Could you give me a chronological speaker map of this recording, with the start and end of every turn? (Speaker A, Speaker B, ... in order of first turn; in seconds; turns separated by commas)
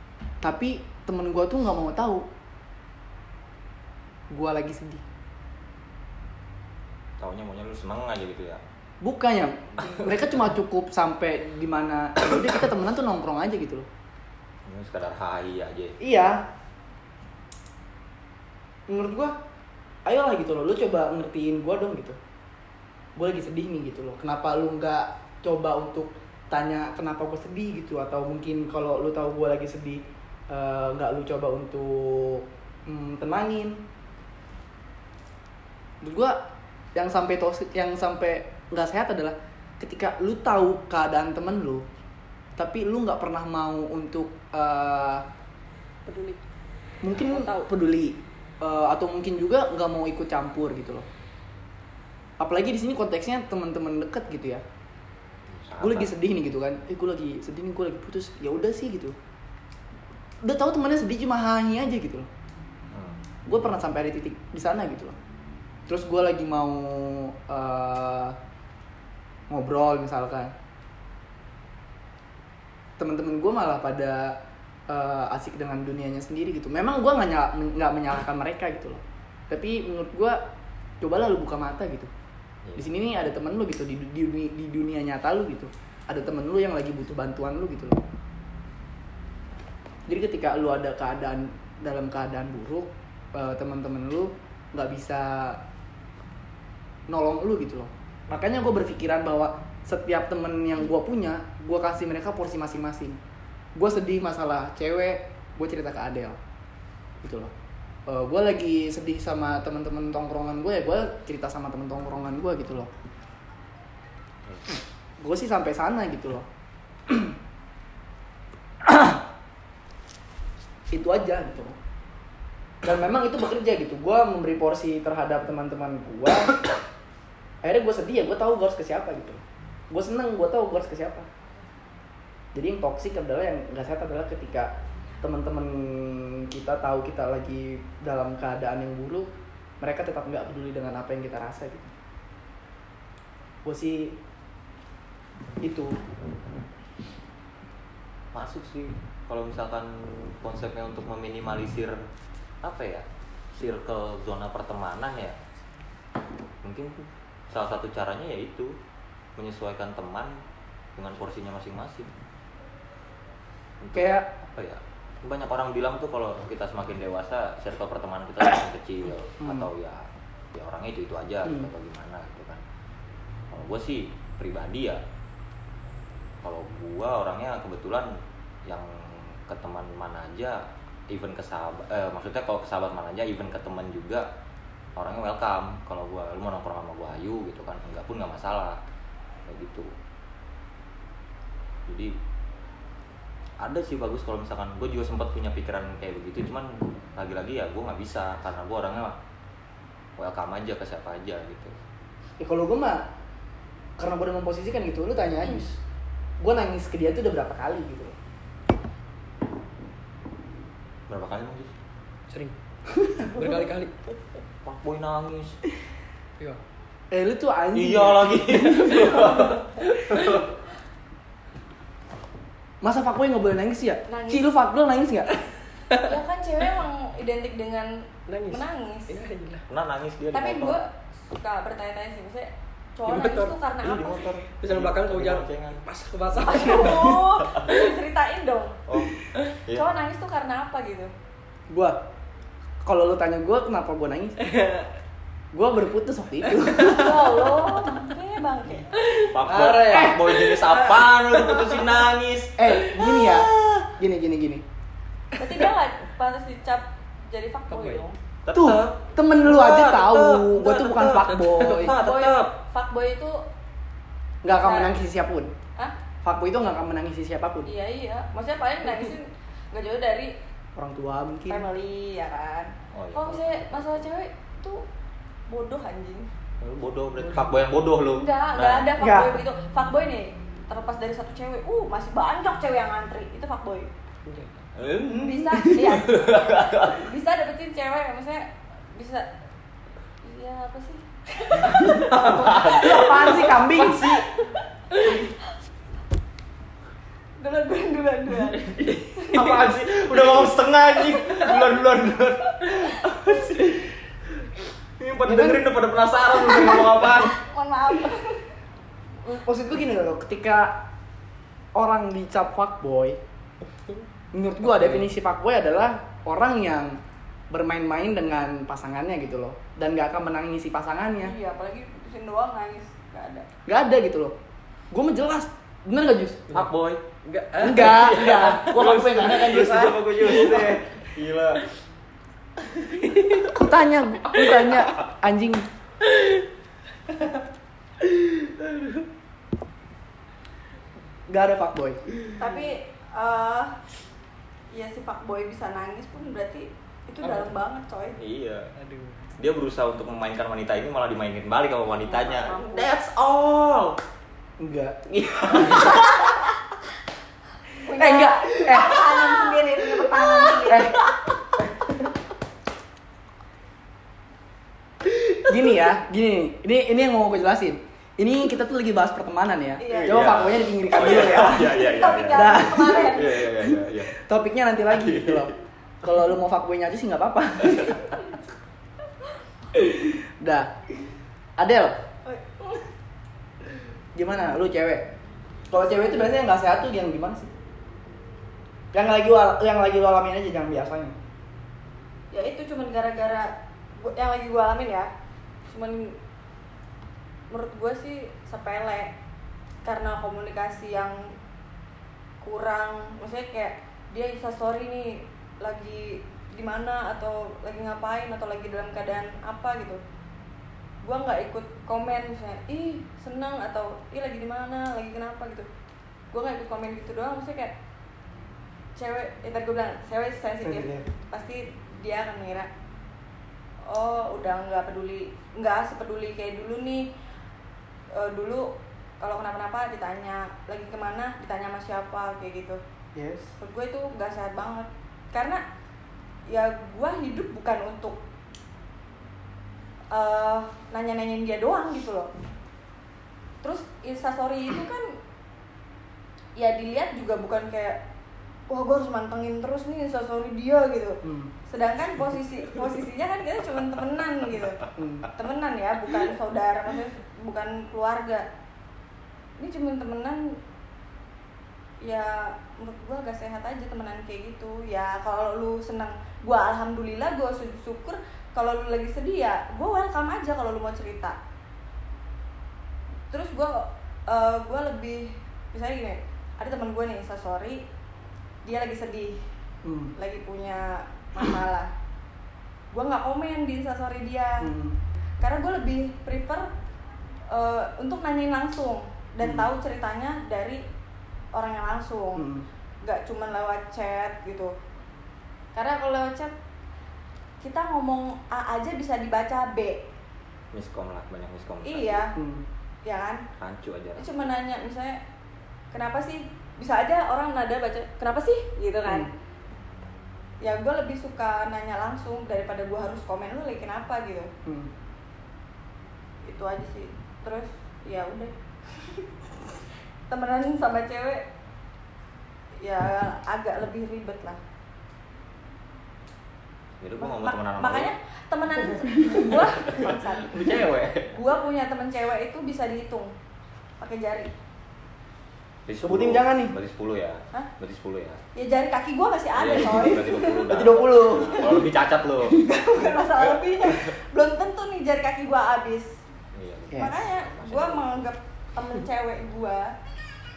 Speaker A: 0.4-2.3, Speaker A: 4.3-5.0, Speaker B: 7.2-8.6, Speaker A: 9.0-13.9, Speaker B: 14.7-16.0, Speaker A: 16.0-16.4, Speaker A: 18.9-19.3, Speaker A: 20.0-22.2, Speaker A: 23.1-33.8, Speaker A: 36.0-36.4, Speaker A: 36.9-41.8, Speaker A: 42.6-45.2, Speaker C: 46.0-46.4, Speaker A: 47.0-51.0, Speaker C: 47.1-47.7, Speaker A: 52.4-54.6, Speaker B: 55.5-56.1, Speaker A: 55.8-59.1, Speaker A: 60.4-62.3, Speaker B: 62.9-63.2, Speaker A: 63.5-65.2, Speaker A: 65.9-68.3, Speaker A: 69.5-70.5, Speaker A: 73.0-80.4, Speaker A: 81.0-82.1, Speaker B: 82.6-82.9, Speaker A: 82.8-88.0, Speaker A: 90.1-95.6, Speaker A: 97.1-103.2, Speaker A: 103.8-106.4, Speaker A: 107.2-107.5, Speaker A: 108.1-112.9, Speaker A: 115.2-116.5, Speaker A: 117.1-117.3, Speaker A: 118.8-119.2, Speaker A: 120.9-121.7, Speaker A: 122.8-126.6, Speaker A: 127.6-131.3, Speaker A: 132.5-139.3, Speaker A: 139.8-141.9, Speaker A: 143.6-144.2, Speaker A: 145.6-146.0, Speaker B: 148.3-152.0, Speaker B: 152.6-155.4, Speaker B: 156.6-158.7, Speaker B: 159.4-160.4, Speaker B: 160.9-162.1, Speaker B: 163.8-170.0, Speaker A: 163.9-164.3, Speaker A: 169.4-169.7, Speaker B: 170.5-172.6, Speaker B: 173.5-175.0, Speaker B: 176.4-184.3, Speaker B: 184.9-188.8, Speaker B: 189.5-189.9, Speaker B: 191.9-192.1, Speaker B: 193.6-199.2, Speaker B: 200.2-201.7, Speaker A: 202.4-203.1, Speaker A: 204.0-205.7, Speaker A: 206.4-208.1, Speaker B: 211.1-211.7, Speaker D: 212.3-212.5, Speaker A: 212.9-213.3, Speaker D: 213.2-213.9, Speaker B: 214.6-215.6, Speaker A: 217.1-219.2, Speaker B: 217.7-220.5, Speaker D: 218.7-220.4, Speaker A: 222.8-225.3, Speaker C: 224.1-224.5, Speaker C: 226.0-229.2, Speaker D: 228.3-229.6, Speaker B: 229.7-230.8, Speaker C: 230.3-234.2, Speaker D: 233.1-233.5, Speaker B: 233.8-235.8, Speaker D: 234.6-237.9, Speaker C: 236.3-238.8, Speaker B: 238.9-239.1, Speaker C: 239.7-241.1, Speaker A: 241.7-242.0, Speaker A: 242.8-244.4, Speaker D: 244.4-244.9, Speaker A: 245.5-247.4, Speaker C: 246.8-248.9, Speaker D: 248.9-252.0, Speaker B: 249.3-253.8, Speaker A: 249.9-250.4, Speaker A: 252.6-254.6, Speaker C: 255.3-258.2, Speaker D: 257.7-258.0, Speaker B: 258.4-262.5, Speaker A: 258.5-261.9, Speaker D: 261.3-261.6, Speaker C: 261.9-263.4, Speaker A: 264.4-265.5, Speaker C: 264.5-264.9, Speaker A: 266.2-267.7, Speaker C: 267.6-270.3, Speaker A: 270.8-271.6, Speaker C: 271.5-274.9, Speaker B: 272.9-274.0, Speaker C: 275.5-276.3, Speaker B: 276.6-278.9, Speaker D: 277.2-277.5, Speaker C: 278.1-283.9, Speaker A: 279.0-279.4, Speaker D: 284.2-284.5, Speaker B: 284.8-287.0, Speaker C: 285.1-289.3, Speaker C: 290.2-292.6, Speaker D: 291.7-293.0, Speaker A: 291.8-294.2, Speaker B: 292.2-294.2, Speaker D: 294.9-295.2, Speaker C: 297.4-299.5, Speaker D: 298.6-299.7, Speaker B: 299.3-303.8, Speaker C: 301.1-301.5, Speaker B: 305.0-307.4, Speaker A: 305.2-305.6, Speaker C: 307.0-308.4, Speaker A: 309.2-310.8, Speaker A: 311.7-313.2, Speaker A: 314.3-321.3, Speaker D: 314.7-315.1, Speaker C: 321.2-323.5, Speaker A: 323.6-324.3, Speaker A: 324.9-326.4, Speaker B: 326.5-327.0, Speaker D: 327.2-330.8, Speaker A: 327.6-330.0, Speaker B: 327.8-331.6, Speaker D: 332.7-333.6, Speaker A: 333.5-335.6, Speaker D: 334.3-334.9, Speaker D: 336.0-336.4, Speaker D: 337.1-337.4, Speaker D: 338.2-339.0, Speaker A: 341.3-342.0, Speaker C: 342.4-343.7, Speaker C: 344.7-348.2, Speaker D: 347.2-347.5, Speaker B: 348.2-348.7, Speaker D: 348.8-349.2, Speaker B: 349.4-354.0, Speaker C: 351.9-352.9, Speaker A: 354.6-356.0, Speaker B: 355.1-356.1, Speaker C: 357.8-361.0, Speaker A: 358.0-359.2, Speaker A: 360.2-361.0, Speaker A: 365.0-375.5, Speaker C: 369.8-370.2, Speaker B: 369.9-374.1, Speaker C: 371.5-373.4, Speaker B: 374.9-375.5, Speaker A: 376.0-378.2, Speaker A: 379.7-380.7, Speaker A: 381.6-382.0, Speaker C: 382.2-382.8, Speaker A: 384.1-385.1, Speaker A: 385.7-387.5, Speaker A: 388.9-391.1, Speaker C: 392.3-395.1, Speaker C: 395.7-396.1, Speaker C: 397.5-399.1, Speaker C: 399.8-401.3, Speaker C: 402.4-410.0, Speaker C: 411.0-415.7, Speaker C: 416.3-417.7, Speaker C: 418.9-422.7, Speaker A: 420.6-421.1, Speaker C: 423.8-427.1, Speaker C: 428.1-432.8, Speaker A: 433.1-433.5, Speaker C: 433.6-435.6, Speaker C: 436.5-438.2, Speaker C: 440.1-442.3, Speaker C: 443.6-445.1, Speaker C: 446.6-448.0, Speaker C: 448.7-458.4, Speaker A: 451.2-451.5, Speaker A: 455.0-455.3, Speaker C: 459.6-460.6, Speaker C: 462.0-471.4, Speaker C: 473.3-477.8, Speaker C: 478.6-479.4, Speaker A: 479.8-480.1, Speaker C: 480.1-481.9, Speaker C: 482.9-484.7, Speaker A: 484.6-485.0, Speaker C: 485.4-486.7, Speaker C: 487.5-490.8, Speaker A: 489.4-489.7, Speaker C: 491.5-492.4, Speaker A: 492.4-492.6, Speaker C: 493.0-494.7, Speaker C: 495.7-496.5, Speaker C: 497.6-500.0, Speaker B: 500.7-502.2, Speaker C: 501.8-502.3, Speaker A: 502.4-502.6, Speaker C: 503.0-503.4, Speaker B: 503.6-504.3, Speaker C: 504.2-505.2, Speaker C: 505.9-509.3, Speaker C: 510.6-514.5, Speaker A: 514.6-514.9, Speaker C: 516.4-519.3, Speaker C: 520.3-521.4, Speaker C: 522.8-524.6, Speaker B: 527.0-528.1, Speaker C: 527.2-530.8, Speaker B: 529.9-531.3, Speaker C: 531.3-533.3, Speaker C: 534.0-534.5, Speaker B: 535.9-538.4, Speaker A: 536.0-536.7, Speaker C: 538.5-541.8, Speaker B: 539.5-542.6, Speaker A: 540.7-541.6, Speaker A: 542.5-542.8, Speaker C: 542.6-546.2, Speaker B: 543.8-544.1, Speaker B: 546.5-548.2, Speaker C: 546.9-549.9